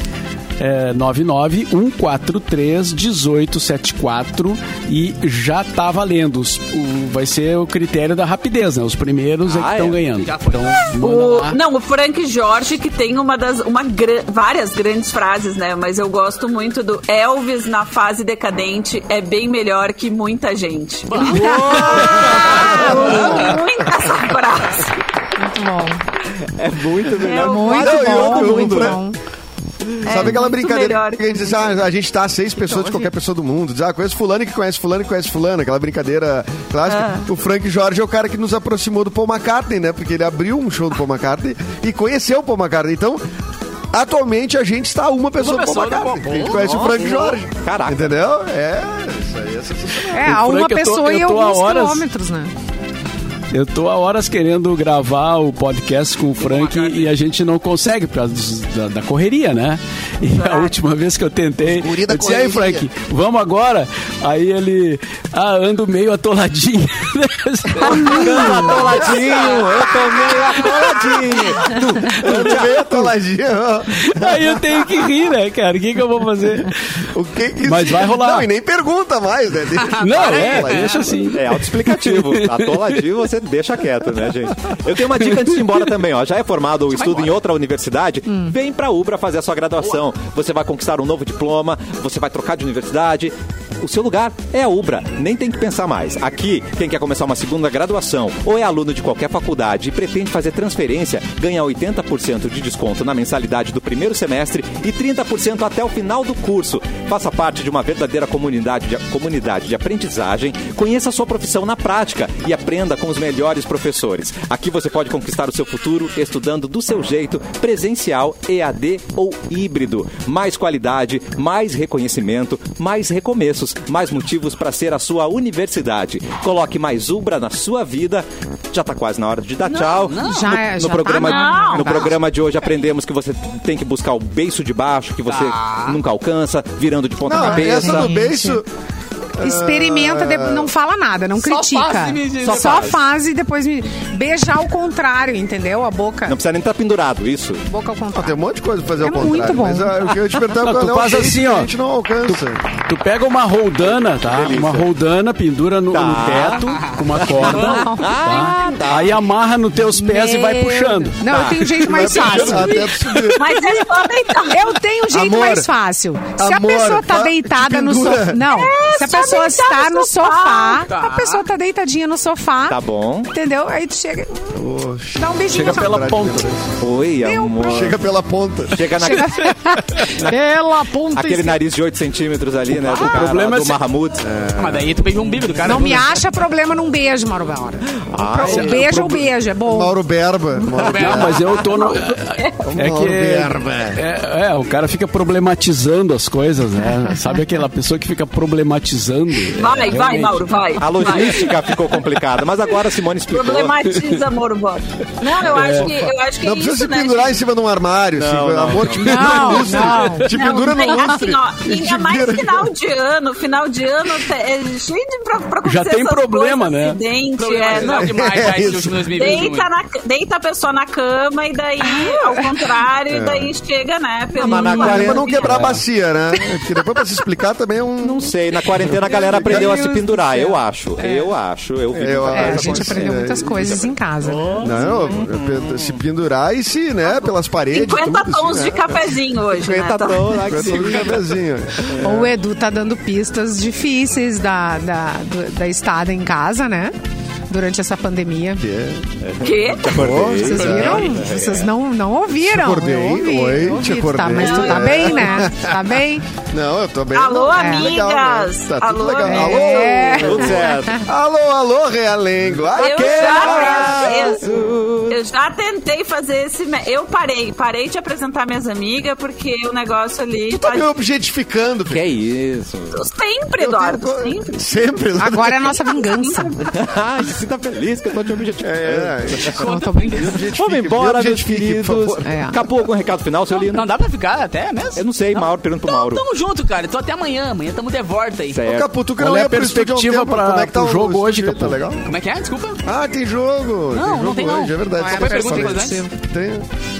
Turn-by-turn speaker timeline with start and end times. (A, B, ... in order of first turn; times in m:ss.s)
0:00.6-0:11.6 A
0:09.5-0:10.0 B
0:10.1-0:11.0 C
0:11.0-0:25.0 D
0:21.0-0:23.5 C
0:21.2-0:23.6 B
0:22.3-0:23.6 E
0:25.4-0:26.0 F
0:26.6-0:29.0 B
0:27.2-0:27.7 D
0:27.3-0:29.2 F
0:27.6-0:29.0 E
0:30.0-0:43.2 E
0:30.0-0:31.4 D
0:32.7-0:32.9 F
0:36.9-0:37.2 D
0:43.9-0:50.1 E
0:45.4-0:47.1 C
0:46.5-0:48.1 B
0:50.1-0:52.0 A
0:50.1-0:52.5 F
0:53.5-1:09.0 A
0:56.4-0:57.1 C
1:00.4-1:00.7 D
1:01.6-1:02.9 E
1:07.8-1:13.0 B
1:08.4-1:14.9 E
1:12.1-1:12.9 A
1:14.0-1:17.0 A
1:17.1-1:21.0 E
1:17.6-1:18.5 A
1:19.8-1:21.3 C
1:20.0-1:22.9 A
1:21.3-2:18.1 B
1:26.9-1:27.3 C
1:28.3-1:28.5 F
2:09.6-2:10.6 C
2:10.2-2:12.1 F
2:11.2-2:12.1 D
2:15.3-2:16.0 C
2:17.2-2:18.7 E
2:17.4-2:18.6 F
2:19.3-2:20.7 E
2:19.4-2:26.4 F
2:21.4-2:23.0 C
2:22.4-2:23.0 B
2:26.3-2:27.6 B
2:27.7-2:28.4 F
2:28.1-2:32.6 E
2:29.0-2:30.0 F
2:30.5-2:31.7 A
2:32.2-2:42.8 A
2:33.8-2:34.9 B
2:35.9-2:39.2 B
2:36.8-2:37.8 C
2:37.4-2:38.1 F
2:39.9-2:42.9 F
2:41.3-2:41.6 B
2:41.8-2:43.6 E
2:43.4-2:44.7 D
2:44.4-2:54.6 F
2:45.1-2:45.7 E
2:46.4-2:48.5 E
2:48.5-2:50.9 D
2:50.9-2:51.4 C
2:52.7-2:53.3 B
2:54.5-2:56.6 E
2:55.2-2:55.9 F
2:55.5-2:56.6 A
2:56.8-2:58.0 B
2:57.2-2:57.9 F
2:57.7-2:58.8 E
2:58.7-3:00.4 B
2:59.0-3:01.6 F
3:01.1-3:04.3 B
3:02.7-3:03.8 A
3:04.2-3:04.9 E
3:04.5-3:06.1 C
3:05.6-3:10.0 F
3:08.1-3:09.1 B
3:08.3-3:09.1 E
3:09.6-3:11.5 E
3:10.7-3:11.8 C
3:10.9-3:21.7 A
3:11.7-3:12.5 D
3:12.6-3:14.0 E
3:19.5-3:21.5 D
3:20.8-3:23.8 B
3:23.3-3:27.4 D
3:25.4-3:26.0 A
3:25.6-3:32.7 E
3:28.2-3:29.9 B
3:29.0-3:30.3 F
3:29.3-3:30.6 A
3:30.3-3:38.2 D
3:35.6-3:37.0 A
3:37.4-3:39.7 C
3:37.8-3:39.1 E
3:39.1-3:45.6 D
3:41.8-3:42.4 F
3:43.1-3:43.5 E
3:44.4-3:49.9 E
3:44.4-3:45.7 B
3:46.4-3:47.0 F
3:48.0-3:54.0 B
3:49.1-3:51.3 F
3:51.9-3:53.8 E
3:52.3-3:54.6 F
3:54.3-3:54.7 C
3:54.5-3:56.0 B
3:54.6-3:59.2 E
3:57.0-4:01.0 D
3:59.6-4:02.1 B
4:00.4-4:02.4 E
4:02.0-4:06.9 F
4:07.5-4:08.6 F
4:08.6-4:09.0 E
4:09.2-4:11.7 B
4:09.4-4:09.9 D
4:09.9-4:11.2 E
4:10.4-4:16.2 F
4:10.7-4:11.2 C
4:12.3-4:24.6 E
4:14.3-4:15.6 D
4:17.1-4:20.8 D
4:17.5-4:17.9 F
4:19.2-4:21.0 F
4:20.2-4:21.0 B
4:22.5-4:25.2 B
4:22.7-4:24.4 D
4:25.1-4:30.9 D
4:30.5-4:32.0 E
4:31.9-4:33.0 B
4:32.9-4:34.6 D
4:33.6-4:35.7 E
4:35.2-4:36.5 F
4:35.7-4:36.7 D
4:36.7-4:39.6 B
4:38.6-4:42.2 E
4:39.6-4:40.3 F
4:39.6-4:40.4 C
4:40.6-4:43.9 B
4:42.2-4:42.6 F
4:43.6-4:48.6 C
4:45.0-4:46.2 B
4:48.5-4:48.9 B
4:48.6-4:52.1 E
4:49.2-4:51.8 A
4:52.0-4:52.8 C
4:52.8-4:56.6 E
4:53.9-4:56.0 C
4:54.9-4:56.1 F